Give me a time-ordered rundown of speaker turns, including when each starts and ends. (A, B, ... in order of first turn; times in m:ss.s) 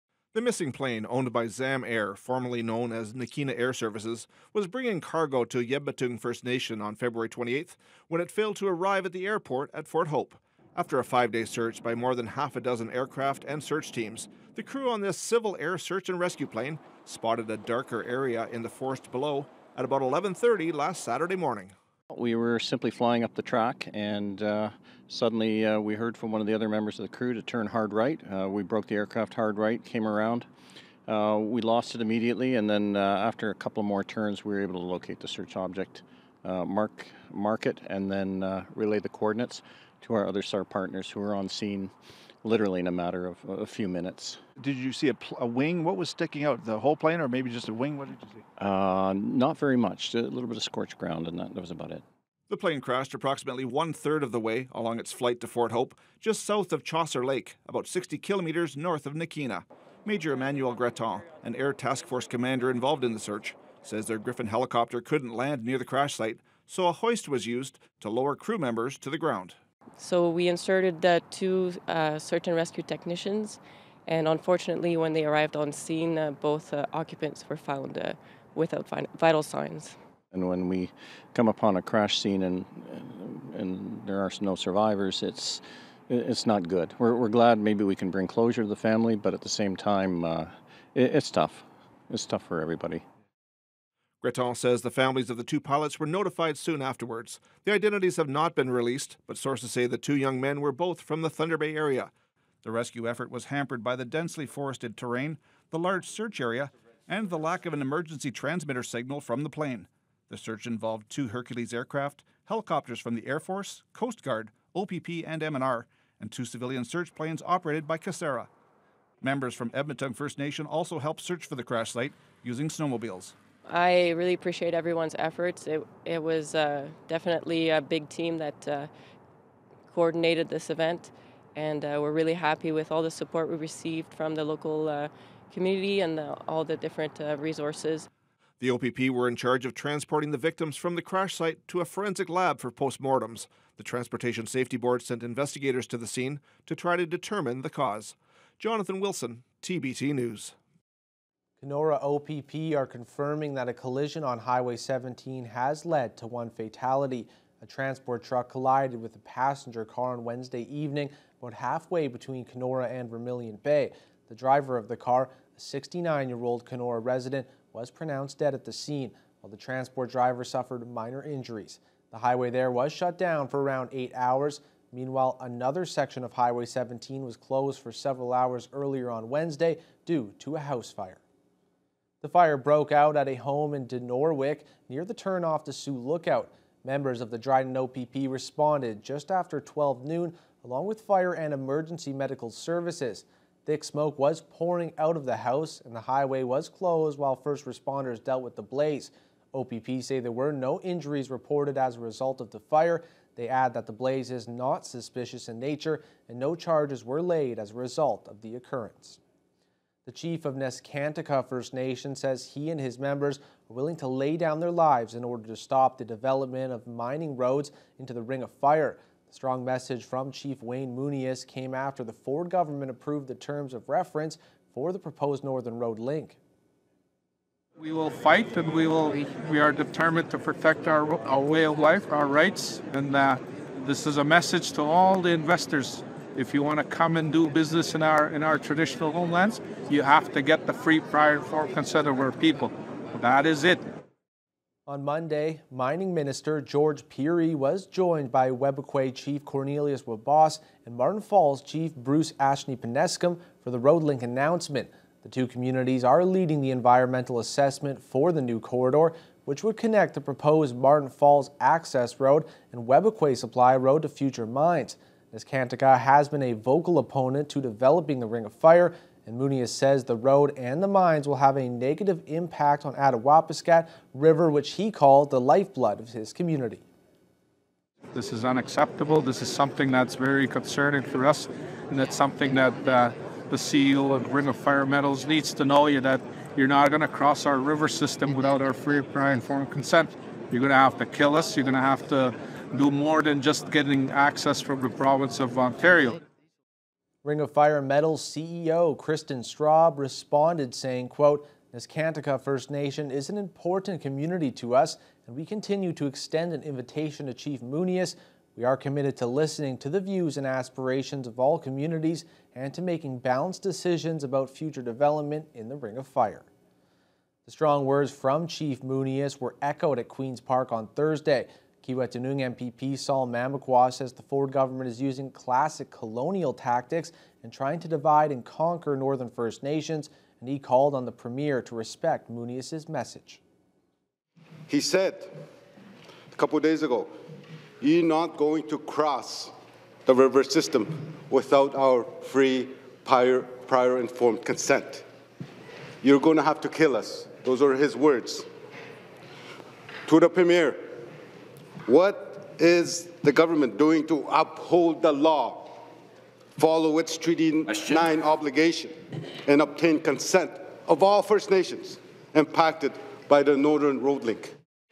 0:00.3-0:21.7 A
0:22.1-0:30.5 B
0:31.1-0:44.4 B
0:44.6-0:48.4 C
0:48.6-0:52.0 B
0:52.5-1:09.6 A
1:10.0-1:20.0 D
1:20.3-1:33.0 B
1:34.2-1:42.1 A
1:42.6-1:58.5 A
1:59.2-2:03.3 A
2:03.6-2:08.9 D
2:09.9-2:18.1 D
2:18.6-2:30.6 A
2:31.6-3:01.2 E
3:02.2-3:29.2 E
3:30.0-3:46.4 E
3:47.8-4:03.8 F
4:04.9-4:36.8 E
4:38.1-4:56.2 F
4:57.2-5:16.5 E
5:17.4-5:33.4 E
5:34.7-5:35.4 G
5:36.3-5:37.1 G
5:37.8-5:39.5 G
5:40.0-5:45.0 G
5:46.0-5:48.5 G
5:50.0-5:50.8 G
5:51.8-5:55.8 G
5:56.6-6:04.5 G